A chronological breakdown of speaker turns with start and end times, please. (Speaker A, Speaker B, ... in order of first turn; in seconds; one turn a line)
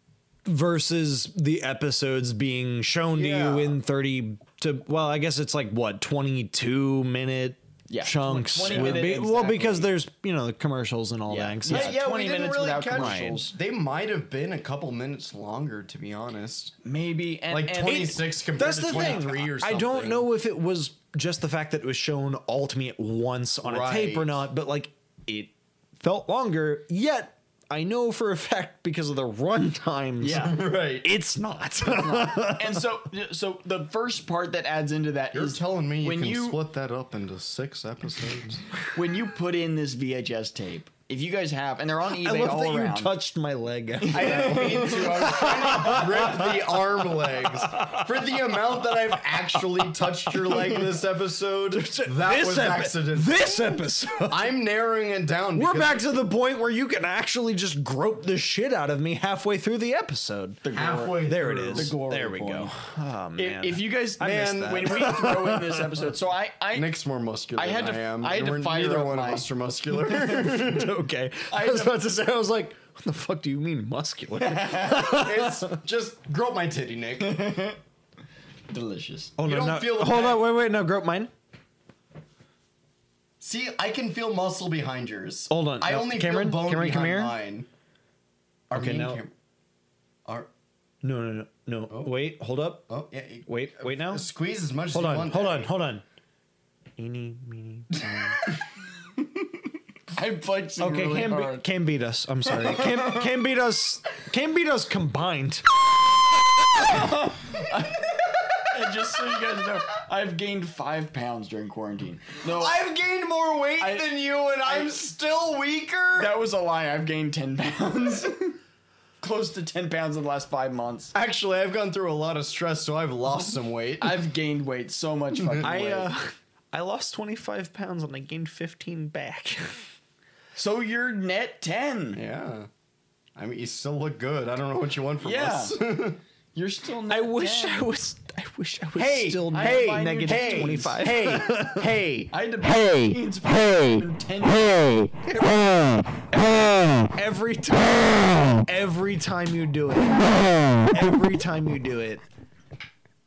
Speaker A: 0.5-11.9
Speaker B: 3.2-3.8
Speaker C: 7.9-9.9
Speaker B: 8.7-9.0
Speaker C: 11.3-13.5
Speaker B: 11.7-16.8
Speaker A: 12.9-13.4
Speaker C: 16.8-18.2
Speaker B: 17.5-20.3
Speaker A: 17.9-32.9
Speaker C: 18.9-19.2
Speaker B: 23.6-24.4
Speaker C: 30.2-30.6
Speaker B: 30.3-31.1
Speaker C: 31.9-36.6
Speaker B: 35.3-38.6
Speaker C: 38.9-43.1
Speaker A: 42.1-50.8
Speaker C: 44.0-46.2
Speaker B: 44.1-56.0
Speaker A: 51.7-54.5
Speaker A: 55.5-60.6
Speaker C: 60.6-62.7
Speaker B: 60.7-62.0
Speaker A: 61.2-66.1
Speaker C: 63.4-66.9
Speaker B: 64.2-65.1
Speaker B: 66.8-70.9
Speaker C: 67.6-69.5
Speaker A: 70.2-75.8
Speaker C: 71.5-72.0
Speaker C: 74.4-75.3
Speaker B: 75.0-77.5
Speaker C: 77.2-77.8
Speaker C: 78.7-79.4
Speaker A: 79.4-81.3
Speaker B: 79.4-80.5
Speaker B: 83.4-87.7
Speaker A: 85.5-87.3
Speaker B: 88.7-89.3
Speaker A: 88.7-89.2
Speaker A: 91.0-92.9
Speaker B: 91.9-92.2
Speaker B: 92.9-95.7
Speaker A: 93.5-94.3
Speaker A: 94.9-96.0
Speaker A: 97.0-98.4
Speaker B: 98.0-98.4
Speaker C: 99.2-101.6
Speaker A: 100.8-105.7
Speaker C: 102.5-103.3
Speaker C: 106.7-112.8
Speaker B: 112.5-116.3
Speaker C: 113.8-114.1
Speaker C: 114.6-115.0
Speaker C: 116.2-118.6
Speaker C: 119.2-121.1
Speaker B: 121.1-124.2
Speaker C: 124.0-126.1
Speaker B: 125.4-125.7
Speaker A: 125.6-129.9
Speaker C: 130.6-132.2
Speaker B: 132.2-132.7
Speaker B: 133.4-136.2
Speaker C: 135.2-135.7
Speaker C: 136.6-137.8
Speaker A: 137.1-141.9
Speaker B: 139.0-147.1
Speaker C: 139.5-140.9
Speaker C: 142.3-145.0
Speaker A: 145.3-146.1
Speaker C: 146.3-146.7
Speaker A: 147.1-152.2